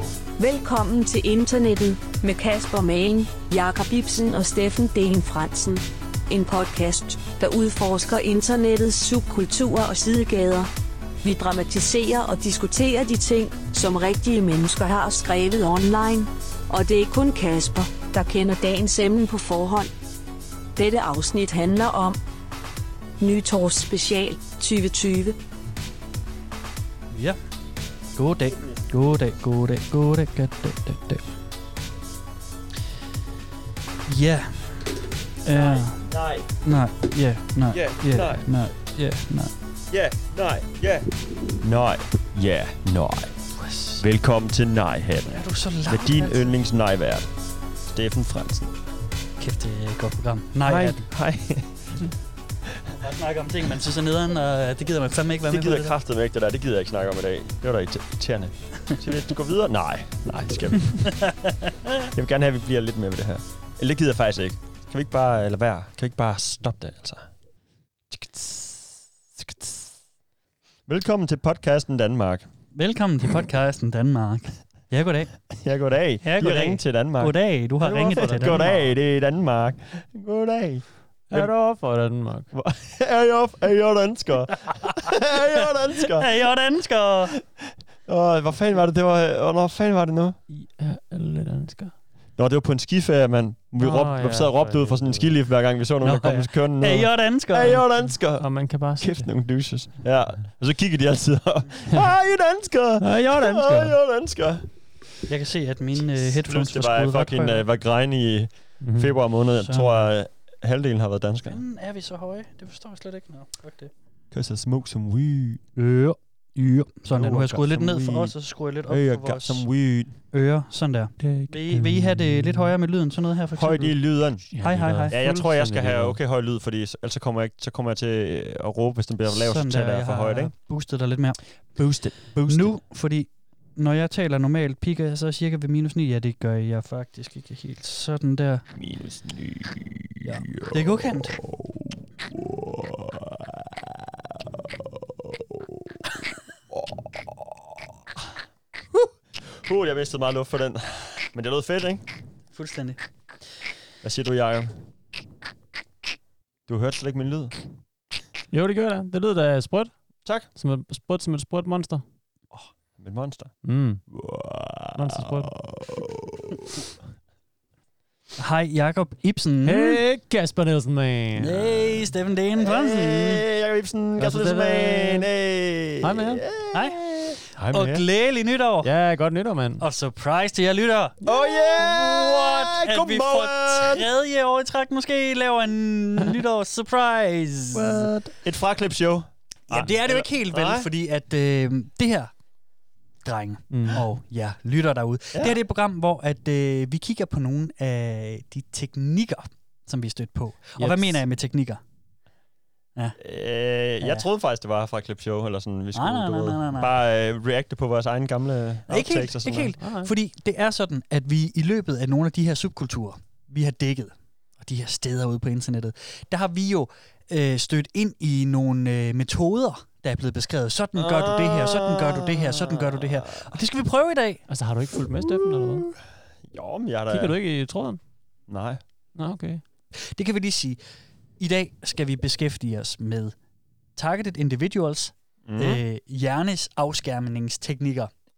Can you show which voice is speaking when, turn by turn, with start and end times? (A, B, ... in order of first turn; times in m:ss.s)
0:00.4-0:10.7 A
0:11.2-0:19.9 A
0:20.8-0:22.2 A
0:23.2-0:25.4 A
0:27.1-0:27.4 B
0:28.2-0:31.3 B
0:34.1-0:34.9 B
0:35.4-0:36.0 B
0:35.5-0:36.5 C
0:36.6-0:39.5 B
0:37.7-0:38.4 C
0:39.9-0:41.1 C
0:41.6-0:43.3 C
0:43.6-0:44.0 B
0:44.0-0:47.2 C
0:45.3-0:46.5 B
0:47.9-0:48.7 C
0:49.4-0:51.0 B
0:50.7-0:52.0 C
0:53.0-0:55.9 B
0:55.5-1:01.2 C
1:01.1-1:01.7 B
1:02.1-1:07.3 C
1:08.1-1:08.8 C
1:09.4-1:09.8 C
1:10.9-1:12.5 C
1:12.7-1:15.4 B
1:15.5-1:17.4 C
1:16.2-1:18.9 B
1:17.8-1:18.9 D
1:18.1-1:21.5 C
1:21.3-1:22.5 D
1:22.5-1:26.3 C
1:26.1-1:27.3 B
1:27.3-1:30.4 C
1:30.5-1:31.9 D
1:32.4-1:44.7 C
1:33.8-1:35.4 D
1:36.0-1:37.9 B
1:38.4-1:39.3 D
1:43.0-1:44.0 D
1:45.3-1:47.6 B
1:46.1-1:51.6 C
1:48.8-1:49.2 D
1:49.6-1:50.1 B
1:51.5-1:53.9 B
1:54.3-1:55.6 C
1:55.8-1:59.7 B
1:57.1-1:58.2 C
1:58.9-2:00.1 C
2:00.3-2:05.2 B
2:01.2-2:02.7 D
2:03.6-2:04.5 C
2:04.5-2:06.2 D
2:05.0-2:10.5 C
2:09.3-2:18.6 B
2:11.8-2:12.7 C
2:18.8-2:26.0 C
2:20.2-2:21.4 B
2:26.7-2:27.8 C
2:29.4-2:32.0 C
2:32.5-2:33.0 B
2:34.0-2:34.8 C
2:36.7-2:37.6 C
2:38.5-2:39.9 D
2:40.5-2:42.0 D
2:42.5-2:43.6 C
2:43.6-2:44.0 D
2:44.1-2:46.7 C
2:45.0-2:45.6 D
2:48.4-2:50.0 B
2:49.6-2:51.7 D
2:51.4-2:53.4 B
2:52.6-2:58.0 C
2:54.2-2:55.3 D
2:56.0-2:56.5 D
2:57.7-2:58.9 B
2:58.8-2:59.8 D
2:59.8-3:01.2 B
3:01.2-3:04.1 C
3:01.8-3:08.1 B
3:07.8-3:08.3 D
3:08.4-3:10.9 C
3:09.7-3:12.3 B
3:13.2-3:21.8 B
3:13.7-3:14.0 D
3:20.8-3:21.2 D
3:23.2-3:29.8 C
3:26.0-3:26.9 B
3:28.9-3:44.4 B
3:29.8-3:30.1 D
3:41.0-3:43.5 C
3:44.5-3:45.9 D
3:46.5-3:47.4 C
3:47.1-3:48.0 D
3:48.5-3:48.8 C
3:49.2-3:49.6 D
3:50.2-3:50.8 B
3:51.4-3:53.4 B
3:54.0-3:58.1 B
3:55.4-3:55.8 C